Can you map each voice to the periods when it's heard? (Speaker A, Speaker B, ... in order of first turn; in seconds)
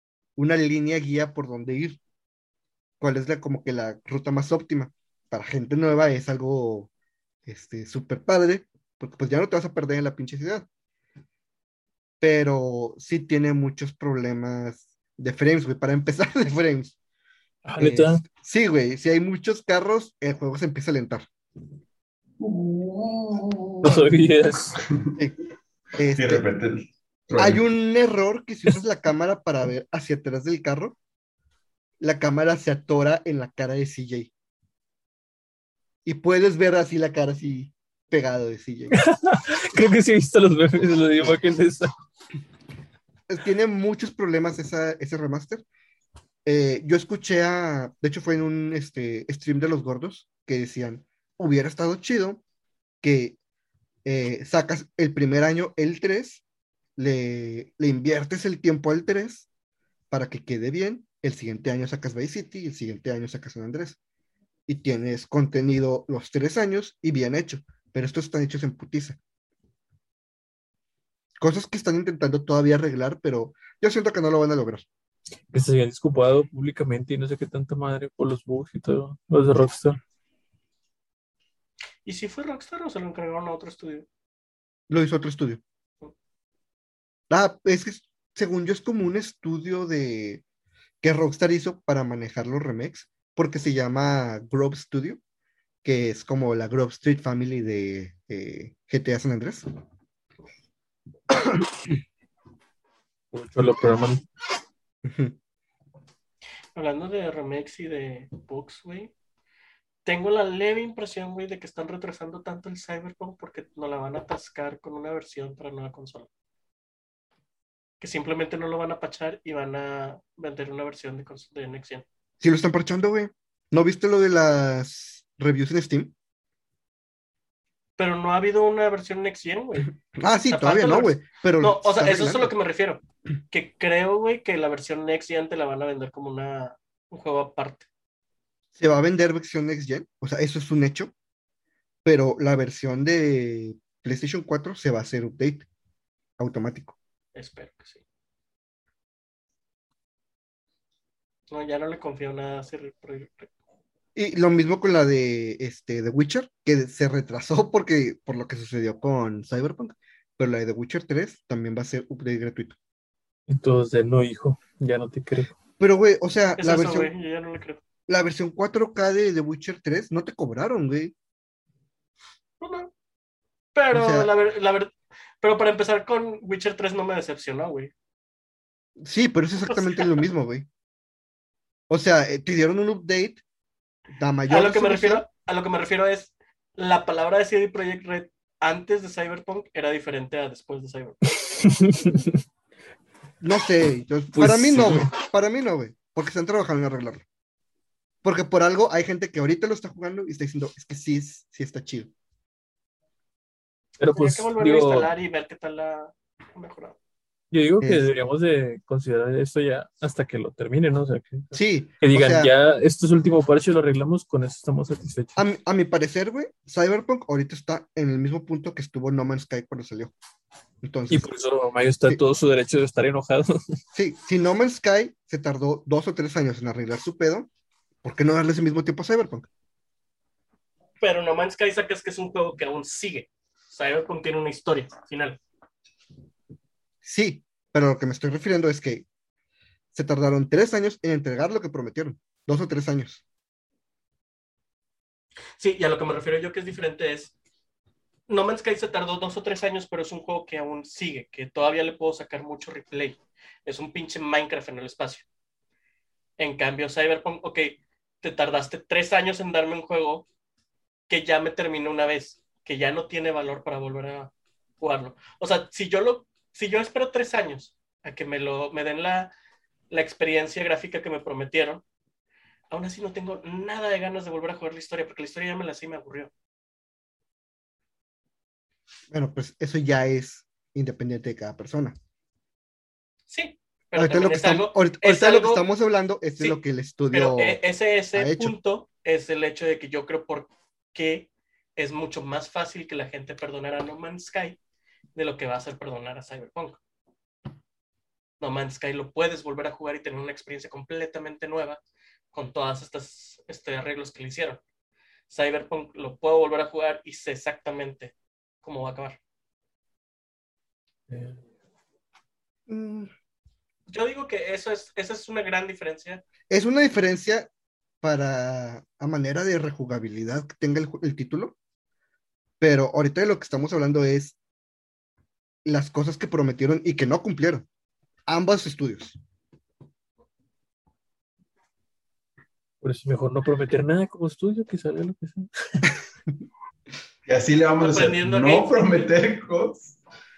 Speaker A: 0.4-2.0, 3.0-6.9, 7.5-10.7, 12.2-16.9, 17.8-21.3, 26.0-26.4, 27.4-31.0, 32.0-34.3, 36.0-39.0, 43.3-45.6, 46.5-52.4, 53.0-53.4, 54.0-56.4, 57.0-59.5, 60.1-64.0, 64.7-69.2, 71.4-74.8, 84.9-85.6, 87.3-90.4, 91.0-95.2, 95.8-99.7, 101.3-101.7, 105.0-105.4, 122.4-126.1, 130.1-132.5, 138.8-141.1, 142.1-145.7, 146.4-147.0, 154.2-162.8, 165.8-167.1, 168.1-171.1, 173.9-174.3, 179.0-180.7, 181.9-183.4, 184.2-185.2, 193.4-197.2, 198.2-202.1, 207.8-208.1, 211.5-212.5, 215.4-220.1, 220.8-221.3, 223.9-227.5, 228.0-229.5, 237.0-239.1, 239.9-243.2, 279.1-282.0, 283.9-287.6, 288.1-288.6, 312.7-313.1, 316.5-317.5, 318.0-321.6, 322.6-324.4, 325.6-327.7, 328.3-329.2
Speaker B: 17.6-18.2, 23.8-24.8, 38.9-41.9, 75.5-80.0, 103.3-104.2, 163.5-165.5, 191.5-192.3, 194.3-195.1, 204.0-205.1, 207.5-215.4, 221.1-223.6, 311.1-311.4, 332.8-335.9
Speaker C: 22.4-24.1, 24.8-25.2, 26.1-27.6, 337.3-340.0
Speaker D: 82.0-84.1, 106.8-109.1, 110.0-116.3, 118.0-122.0, 128.0-129.9, 130.5-137.9, 147.3-148.0, 151.5-153.5, 166.6-167.8, 172.6-172.9, 173.8-177.9, 179.6-180.2, 184.5-191.2, 204.1-207.0, 231.0-235.4, 245.6-247.3, 248.3-255.3, 256.4-260.3, 261.1-269.3, 269.9-271.8, 272.7-276.3, 283.3-285.6, 287.1-294.6, 295.1-296.8, 298.4-301.8, 302.3-304.6, 305.3-309.2, 313.9-316.2, 337.8-339.1